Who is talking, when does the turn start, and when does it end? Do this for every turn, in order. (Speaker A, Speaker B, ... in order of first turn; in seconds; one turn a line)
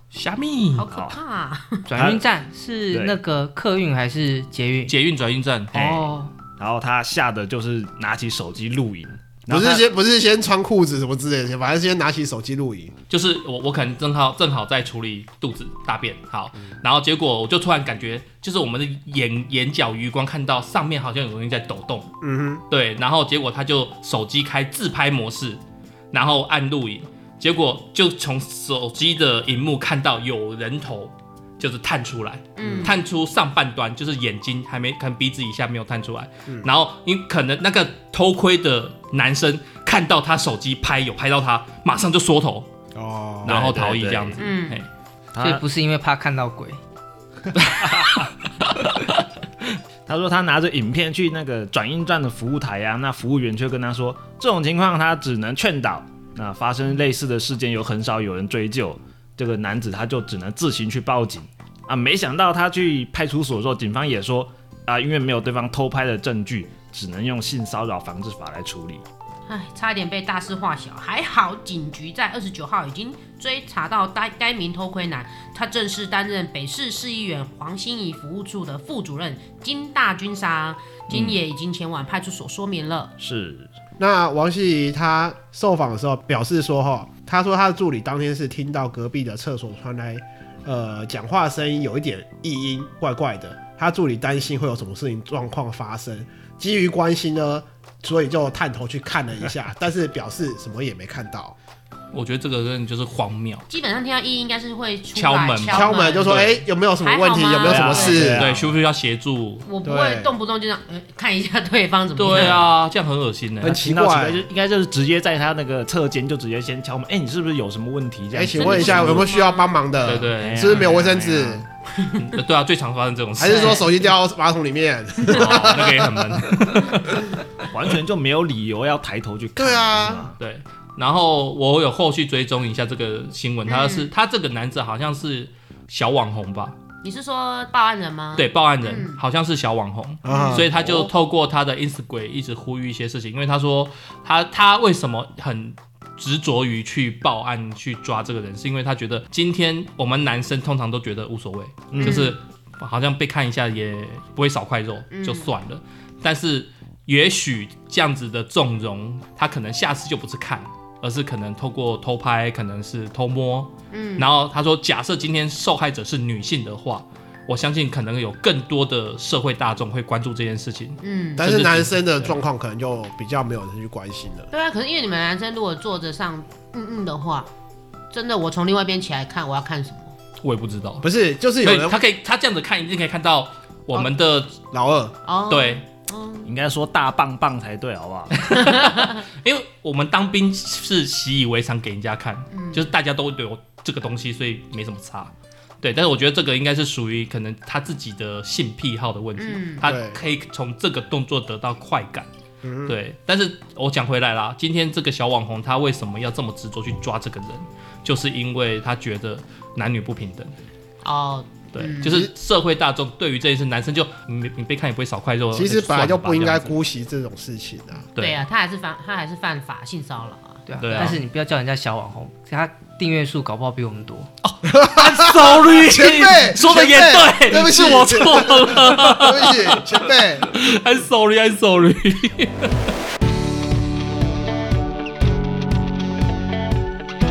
Speaker A: 0.1-0.9
Speaker B: 0.8-1.9
Speaker C: 0.9-1.2
Speaker D: 1.9-5.0
Speaker C: 1.9-2.2
Speaker C: 2.9-3.2
Speaker A: 4.9-5.8
Speaker D: 5.7-6.3
Speaker C: 5.7-9.8
Speaker E: 9.5-12.9
Speaker A: 13.1-22.1
Speaker E: 22.2-22.6
Speaker A: 22.7-25.6
Speaker A: 26.1-42.7
Speaker B: 32.6-33.0
Speaker E: 32.6-33.0
Speaker E: 43.0-43.6
Speaker C: 43.4-44.4
Speaker A: 43.5-44.9
Speaker B: 44.4-44.8
Speaker C: 45.4-45.6
Speaker D: 45.4-46.8
Speaker C: 47.5-48.3
Speaker C: 50.1-69.0
Speaker B: 69.5-83.1
Speaker C: 83.2-83.7
Speaker E: 84.0-101.6
Speaker A: 102.1-103.7
Speaker B: 103.7-106.5
Speaker A: 105.2-106.4
Speaker E: 105.7-108.5
Speaker B: 107.0-108.3
Speaker C: 107.6-108.7
Speaker A: 108.2-109.7
Speaker B: 109.7-112.7
Speaker E: 109.8-110.3
Speaker A: 112.2-113.8
Speaker E: 113.6-114.5
Speaker C: 113.8-119.3
Speaker E: 118.3-121.6
Speaker B: 118.5-119.7
Speaker A: 120.0-121.6
Speaker C: 120.4-121.5
Speaker A: 122.2-123.9
Speaker E: 123.4-126.5
Speaker B: 123.4-123.9
Speaker A: 125.3-127.4
Speaker C: 127.7-130.3
Speaker E: 129.6-130.3
Speaker A: 130.4-136.8
Speaker B: 133.7-134.1
Speaker B: 137.0-139.2
Speaker A: 138.4-172.4
Speaker E: 140.2-141.1
Speaker B: 140.3-140.7
Speaker C: 151.9-152.3
Speaker B: 152.0-152.4
Speaker B: 155.1-155.5
Speaker B: 163.9-164.3
Speaker B: 171.0-171.4
Speaker E: 171.4-174.5
Speaker B: 174.5-177.5
Speaker B: 178.1-180.1
Speaker A: 180.4-181.1
Speaker E: 181.0-182.0
Speaker A: 181.6-184.6
Speaker E: 184.7-185.2
Speaker B: 185.3-186.5
Speaker A: 185.5-185.8
Speaker C: 186.4-188.4
Speaker B: 188.5-189.2
Speaker A: 188.5-202.3
Speaker B: 192.5-192.9
Speaker B: 199.4-199.8
Speaker E: 199.8-200.2
Speaker E: 202.6-203.0
Speaker A: 202.9-210.5
Speaker B: 211.0-212.3
Speaker A: 211.7-216.8
Speaker E: 215.5-218.1
Speaker A: 218.2-218.4
Speaker B: 218.2-220.6
Speaker D: 220.7-224.3
Speaker A: 220.8-221.2
Speaker A: 224.4-232.7
Speaker E: 224.7-230.5